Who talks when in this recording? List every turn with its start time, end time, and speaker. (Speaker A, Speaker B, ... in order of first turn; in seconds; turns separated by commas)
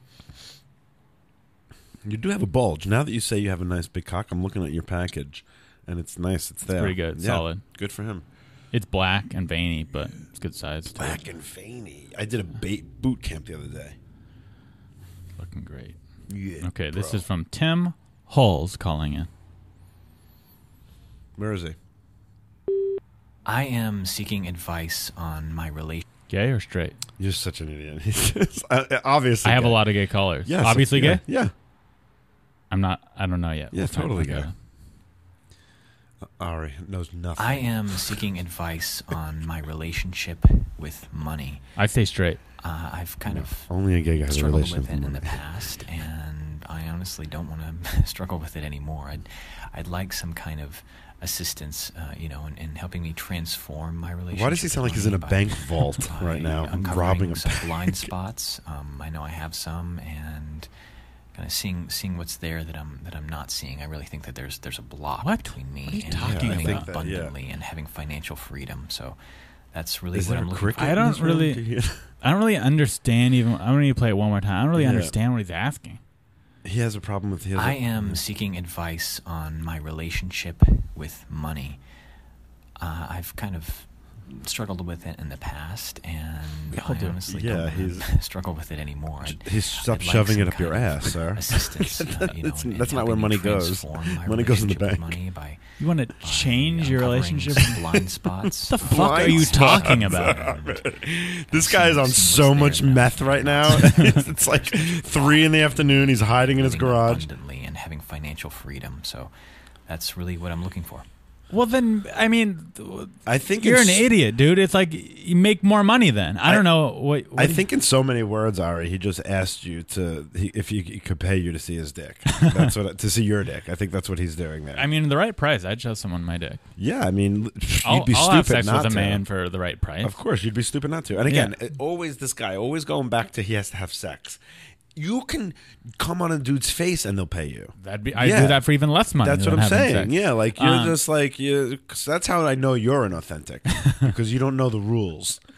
Speaker A: 2.0-8.2, Speaker B: 6.8-7.6, Speaker B: 8.7-11.2, Speaker A: 11.0-13.9, Speaker B: 15.4-16.0, Speaker A: 16.3-17.2, Speaker B: 16.6-19.3, Speaker A: 21.4-21.8, Speaker C: 23.4-26.0, Speaker B: 26.3-27.0, Speaker A: 27.2-29.8, Speaker B: 29.4-31.2, Speaker A: 30.4-31.5, Speaker B: 32.7-34.5, Speaker A: 33.7-34.5, Speaker A: 36.4-38.2, Speaker C: 37.4-41.6, Speaker B: 41.8-42.4, Speaker C: 42.6-43.7, Speaker A: 43.2-45.4, Speaker C: 44.3-60.7, Speaker A: 54.3-58.1, Speaker C: 61.3-69.2, Speaker B: 65.2-66.9, Speaker A: 66.1-67.3, Speaker C: 69.7-70.9, Speaker A: 70.1-72.0, Speaker B: 70.7-71.6, Speaker B: 72.2-76.0, Speaker A: 74.7-75.1, Speaker A: 76.6-78.2, Speaker C: 77.5-81.8, Speaker C: 82.8-95.6, Speaker B: 86.7-87.2, Speaker A: 87.3-88.1, Speaker A: 89.2-95.2, Speaker B: 95.8-98.0, Speaker C: 96.2-100.9, Speaker B: 98.6-100.5, Speaker A: 98.8-107.3, Speaker C: 101.5-105.5, Speaker C: 106.4-109.3, Speaker C: 109.9-111.0, Speaker B: 111.5-117.6, Speaker A: 113.2-114.0, Speaker A: 117.3-124.8, Speaker B: 122.3-122.7, Speaker B: 124.7-126.6, Speaker A: 126.8-129.2, Speaker B: 127.8-130.1, Speaker A: 130.0-134.4, Speaker B: 131.3-131.5, Speaker A: 134.9-138.6, Speaker B: 137.8-141.0, Speaker A: 139.2-145.4